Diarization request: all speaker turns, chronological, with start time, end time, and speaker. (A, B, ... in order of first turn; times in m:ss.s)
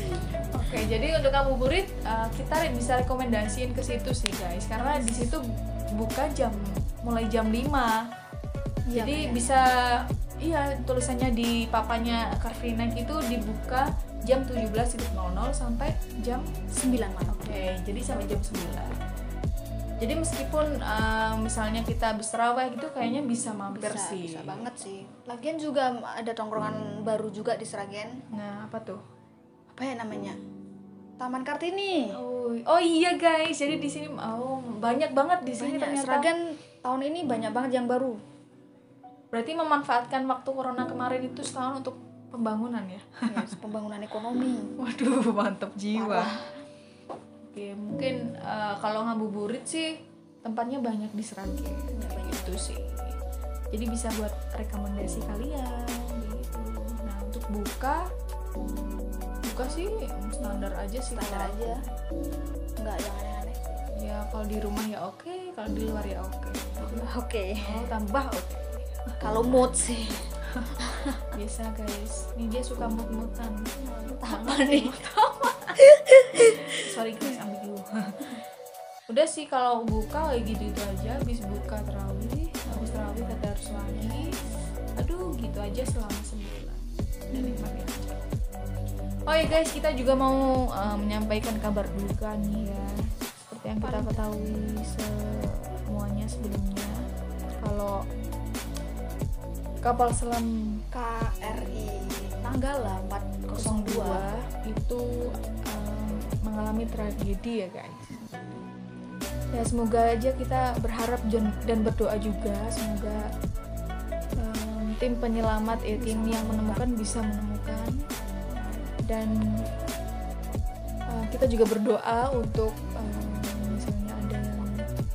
0:00.5-0:08.0 A
0:04.9-0:05.3 B
0:08.9-0:09.5 B
0:08.9-0:16.6 A
0:16.7-0:17.6 B
0:17.3-0:18.9 A
0:20.0-0:24.7 A
0:23.7-0:28.1 B
0:28.3-0:29.0 A
0:29.7-0:30.4 B
0:31.2-0:32.1 B
0:32.1-0:36.3 A
0:35.6-0:38.2 B
0:39.3-0:43.5 A
0:43.3-0:44.7 B
0:44.8-0:46.4 A
0:45.9-0:46.5 B
0:47.5-0:49.9 A
0:50.4-0:53.2 A
0:51.9-0:52.7 B
0:53.7-0:58.0 A
0:59.4-1:01.9 A
1:00.4-1:01.7 B
1:02.8-1:03.8 B
1:03.9-1:09.2 A
1:06.8-1:07.6 B
1:09.2-1:10.2 B
1:10.8-1:11.2 B
1:11.3-1:15.9 A
1:13.8-1:15.0 B
1:15.8-1:16.7 B
1:16.4-1:18.4 A
1:19.1-1:24.4 A
1:22.7-1:23.1 B
1:23.9-1:24.5 B
1:25.0-1:28.2 A
1:27.3-1:27.7 B
1:29.3-1:36.9 A
1:33.8-1:34.3 B
1:37.6-1:38.0 A
1:39.8-1:40.8 A
1:40.9-1:44.3 B
1:43.6-1:48.3 A
1:48.2-1:48.6 B
1:49.5-1:53.3 A
1:54.4-1:58.0 A
1:55.9-1:56.9 B
1:58.5-1:58.8 B
1:59.0-1:59.4 A
2:01.1-2:04.8 A